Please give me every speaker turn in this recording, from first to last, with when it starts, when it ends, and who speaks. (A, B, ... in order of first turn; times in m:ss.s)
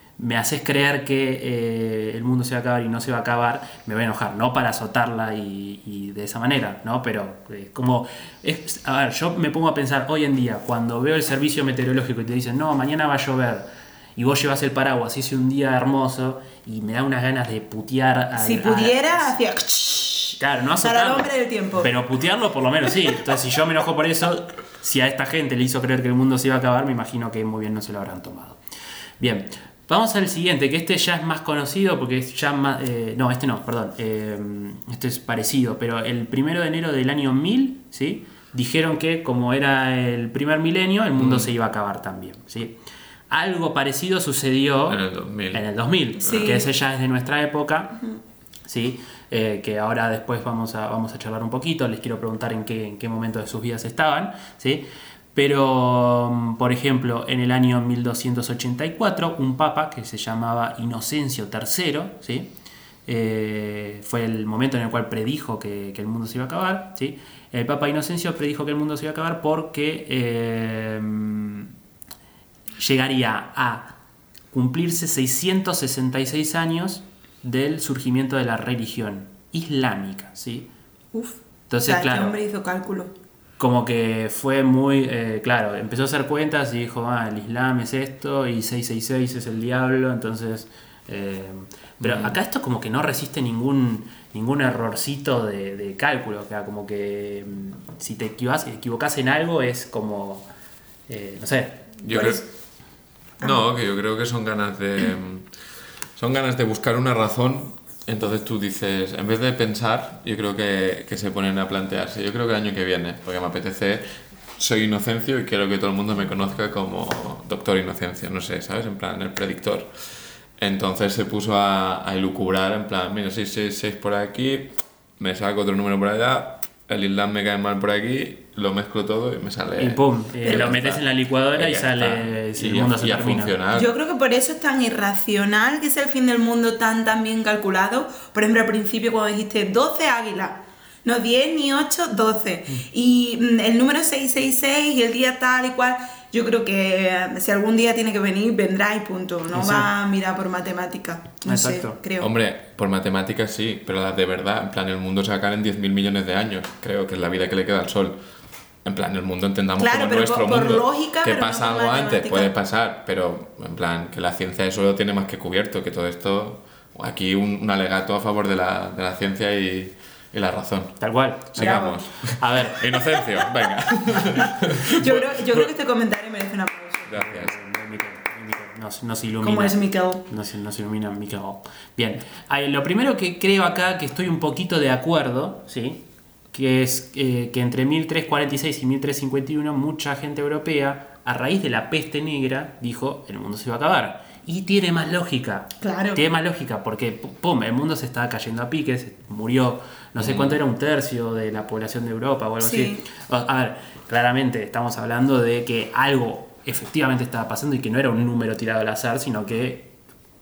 0:00.2-0:19.3 A
0:18.4-0:21.9 B
0:20.4-0:28.6 A
0:29.2-0:42.8 A
0:41.2-0:41.5 C
0:43.3-0:45.0 A
0:44.9-0:45.6 C
0:45.5-0:48.0 A
0:46.2-0:46.6 C
0:46.2-0:46.7 B
0:48.6-1:02.5 A
1:03.0-1:11.7 A
1:12.8-1:14.0 A
1:14.5-1:20.7 A
1:21.1-1:23.1 B
1:21.7-1:22.4 A
1:23.6-1:40.4 A
1:32.0-1:32.4 C
1:41.1-1:42.3 A
1:42.0-1:42.4 C
1:42.1-1:42.4 B
1:43.4-1:45.5 C
1:46.2-1:59.9 C
2:00.6-2:13.9 C
2:09.8-2:13.6 A
2:10.4-2:10.7 B
2:13.7-2:32.3 B
2:29.5-2:29.9 A
2:31.4-2:32.0 A
2:32.2-2:38.2 C
2:38.8-2:51.0 C
2:39.8-2:42.5 B
2:51.0-2:52.8 A
2:51.5-2:55.7 C
2:51.6-2:52.0 B
2:54.8-2:57.1 B
2:57.1-2:57.5 C
2:57.1-3:29.9 A
2:59.4-3:00.2 B
3:15.8-3:16.2 B
3:20.2-3:20.6 C
3:22.6-3:23.0 B